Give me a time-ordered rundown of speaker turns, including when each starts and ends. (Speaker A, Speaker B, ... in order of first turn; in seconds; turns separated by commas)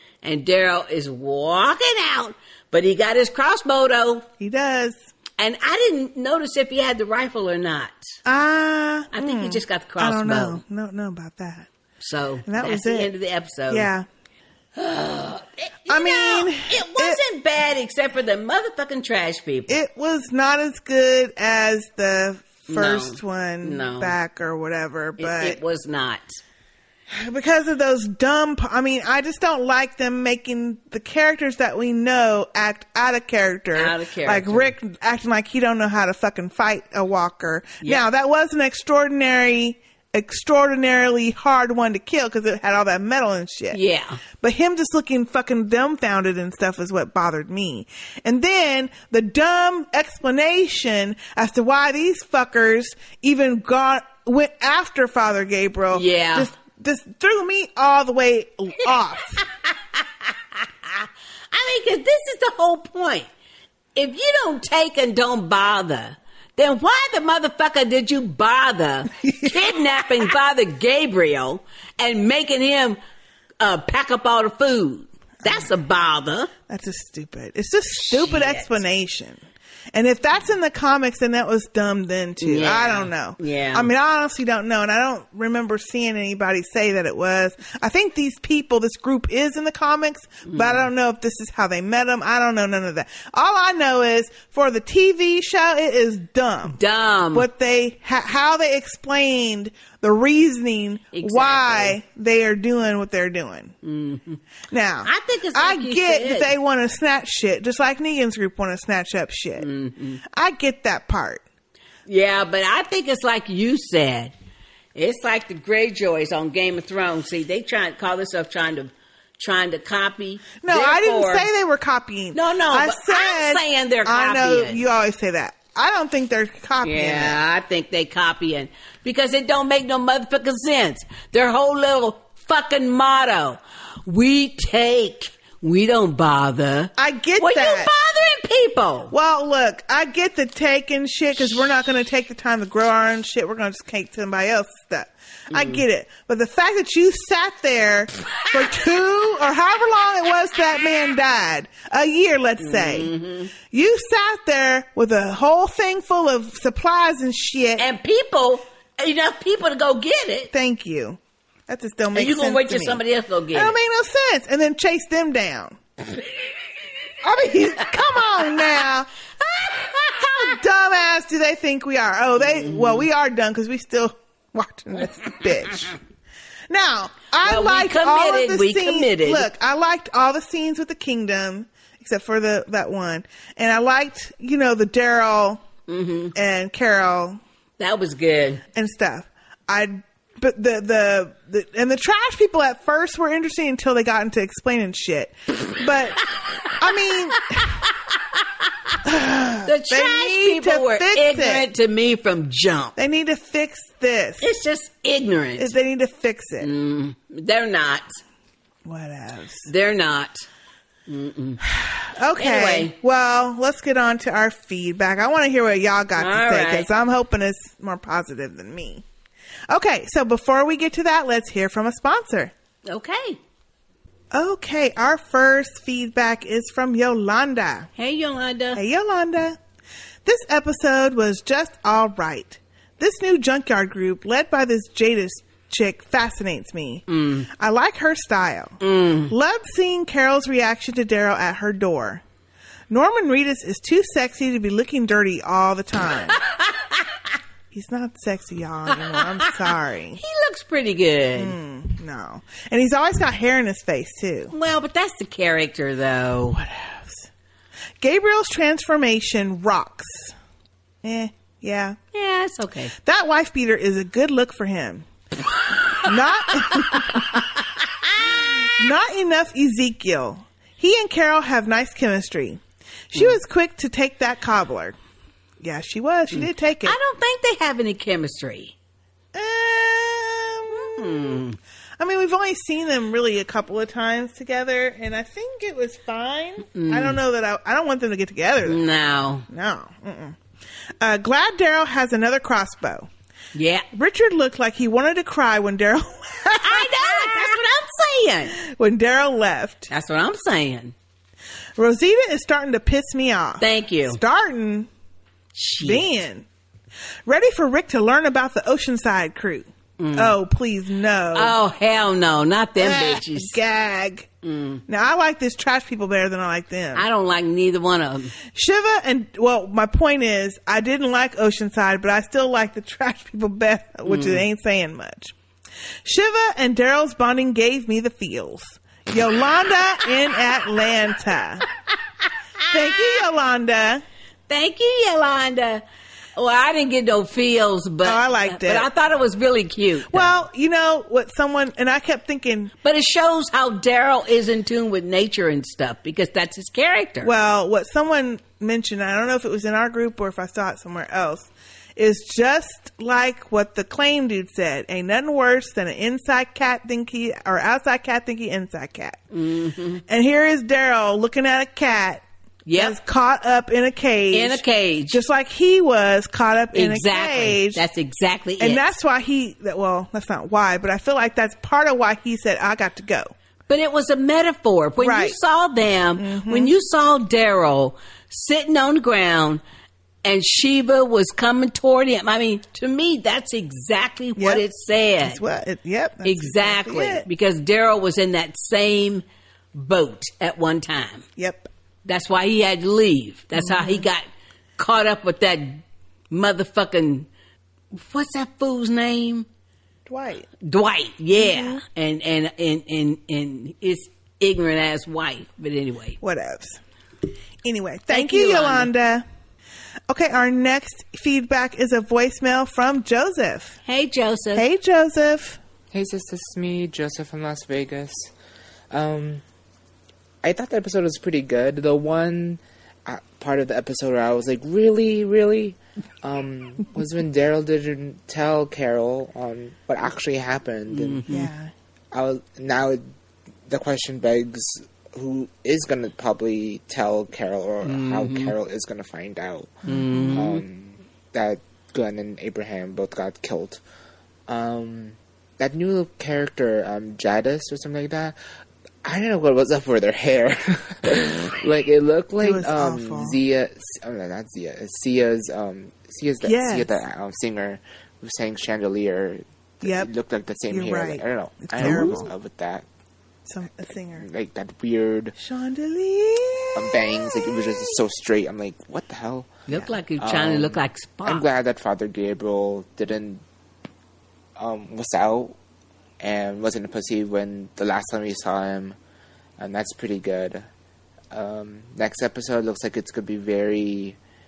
Speaker A: 0.2-4.3, Speaker B: 4.4-5.0, Speaker A: 5.4-8.0, Speaker B: 8.3-11.7, Speaker A: 9.1-10.6, Speaker A: 12.0-13.9, Speaker B: 12.5-13.1, Speaker B: 13.7-14.1, Speaker A: 14.8-19.8, Speaker B: 15.9-17.2, Speaker B: 19.7-25.6, Speaker A: 22.7-24.1, Speaker A: 25.2-26.3, Speaker B: 27.1-43.8, Speaker A: 33.8-34.8, Speaker A: 43.7-44.2, Speaker B: 44.4-59.4, Speaker A: 55.9-56.5, Speaker A: 59.6-63.3, Speaker A: 64.0-73.0, Speaker B: 69.2-69.8, Speaker A: 73.6-76.5, Speaker B: 76.7-96.8, Speaker A: 78.0-78.8, Speaker A: 82.4-83.9, Speaker A: 90.5-90.9, Speaker A: 96.7-97.5, Speaker B: 97.3-103.7, Speaker A: 101.1-102.0, Speaker A: 103.8-104.4, Speaker B: 104.7-109.7, Speaker A: 105.0-106.5, Speaker A: 109.6-110.2, Speaker B: 110.3-111.4, Speaker A: 112.1-114.3, Speaker A: 115.0-121.5, Speaker B: 120.6-127.4, Speaker A: 122.3-124.8, Speaker A: 126.8-139.1, Speaker B: 137.0-137.9, Speaker B: 139.1-153.1, Speaker A: 145.5-145.8, Speaker A: 152.6-153.5, Speaker B: 153.7-157.9, Speaker A: 157.8-160.5, Speaker B: 160.5-163.0, Speaker A: 162.2-163.7, Speaker B: 163.5-165.8, Speaker B: 167.2-169.1, Speaker A: 169.4-170.1, Speaker B: 170.2-175.9, Speaker A: 172.4-173.1, Speaker B: 176.7-185.6, Speaker A: 177.4-179.5, Speaker A: 185.9-186.3, Speaker B: 186.3-187.4, Speaker A: 187.8-188.6, Speaker B: 188.8-196.2, Speaker B: 196.8-197.8, Speaker B: 199.1-201.7, Speaker A: 199.7-203.0, Speaker B: 203.0-204.4, Speaker A: 204.4-205.7, Speaker B: 205.6-206.7, Speaker A: 206.6-208.1, Speaker B: 208.9-209.7, Speaker A: 209.7-210.4, Speaker A: 211.1-211.6, Speaker B: 211.7-219.0, Speaker A: 212.4-213.0, Speaker A: 216.2-216.9, Speaker B: 219.7-222.5, Speaker A: 222.9-223.4, Speaker B: 224.3-227.9, Speaker A: 228.0-228.8, Speaker B: 228.8-229.6, Speaker B: 230.3-237.0, Speaker A: 237.1-237.5, Speaker B: 237.6-238.8, Speaker A: 238.8-239.3, Speaker B: 239.3-242.2, Speaker B: 242.9-246.4, Speaker A: 246.5-247.0, Speaker B: 247.7-250.2, Speaker A: 249.1-249.5, Speaker A: 250.2-251.6, Speaker B: 251.4-254.5, Speaker A: 254.5-256.6, Speaker B: 256.5-257.3, Speaker B: 258.0-260.3, Speaker B: 261.0-262.0, Speaker A: 262.1-262.9, Speaker B: 263.0-265.1, Speaker B: 266.0-267.2, Speaker A: 266.7-267.4, Speaker A: 268.2-268.4, Speaker B: 268.7-272.6, Speaker B: 273.1-275.0, Speaker B: 275.6-277.0, Speaker A: 276.3-278.7, Speaker B: 279.3-281.4, Speaker A: 280.7-281.6, Speaker B: 282.0-288.8, Speaker A: 286.8-287.2, Speaker A: 288.7-289.4, Speaker B: 289.5-290.4, Speaker B: 291.0-293.1, Speaker A: 293.6-293.9, Speaker B: 293.9-297.5, Speaker A: 296.6-298.5, Speaker B: 298.5-299.9, Speaker A: 299.9-300.9, Speaker B: 301.8-304.9, Speaker A: 303.6-304.2, Speaker A: 305.6-306.1, Speaker B: 305.8-306.4, Speaker B: 307.3-311.6, Speaker A: 310.0-310.4, Speaker A: 311.3-313.6, Speaker B: 312.8-314.3, Speaker A: 314.4-314.8, Speaker B: 314.9-317.1, Speaker A: 316.9-318.3, Speaker B: 318.5-325.3, Speaker A: 324.1-324.4, Speaker B: 326.0-331.6, Speaker B: 332.7-334.0, Speaker A: 334.5-335.8, Speaker A: 336.4-340.4, Speaker B: 338.0-338.9, Speaker B: 340.1-342.7, Speaker A: 342.8-347.3, Speaker B: 347.2-359.2, Speaker A: 359.3-360.0, Speaker B: 360.1-362.2, Speaker A: 362.7-362.9, Speaker B: 362.8-367.8, Speaker A: 364.3-365.2, Speaker A: 366.7-368.9, Speaker B: 368.6-373.3, Speaker A: 373.7-379.6, Speaker B: 375.0-375.4, Speaker B: 376.2-376.7, Speaker A: 380.2-385.4, Speaker B: 384.4-384.6, Speaker B: 385.2-387.2, Speaker A: 386.2-389.2, Speaker A: 389.8-391.2, Speaker B: 391.4-391.7, Speaker A: 392.1-394.3, Speaker B: 393.6-394.1, Speaker A: 394.8-397.3, Speaker A: 398.1-399.5, Speaker B: 400.1-400.5, Speaker A: 400.6-406.2, Speaker B: 401.4-401.8, Speaker B: 406.2-406.8, Speaker B: 407.6-409.2, Speaker A: 408.1-408.9, Speaker B: 410.1-413.8, Speaker A: 413.9-414.6, Speaker B: 414.6-415.6, Speaker C: 415.9-418.3, Speaker C: 418.9-419.4, Speaker C: 420.4-431.2, Speaker A: 430.9-431.5, Speaker B: 431.3-431.7, Speaker C: 432.1-433.1, Speaker C: 433.7-439.7, Speaker A: 437.9-438.5, Speaker B: 439.9-440.5, Speaker A: 439.9-440.6, Speaker C: 440.4-443.8, Speaker C: 444.5-448.4, Speaker C: 449.1-462.9, Speaker B: 452.4-453.4, Speaker B: 456.4-457.0, Speaker B: 459.8-460.1, Speaker B: 460.7-462.3, Speaker B: 463.5-464.3, Speaker C: 464.1-465.4, Speaker B: 465.4-467.9, Speaker C: 466.8-469.5, Speaker A: 469.7-471.5, Speaker C: 470.2-473.4, Speaker C: 474.6-475.6, Speaker C: 476.2-479.0, Speaker C: 479.6-480.7, Speaker C: 481.3-484.2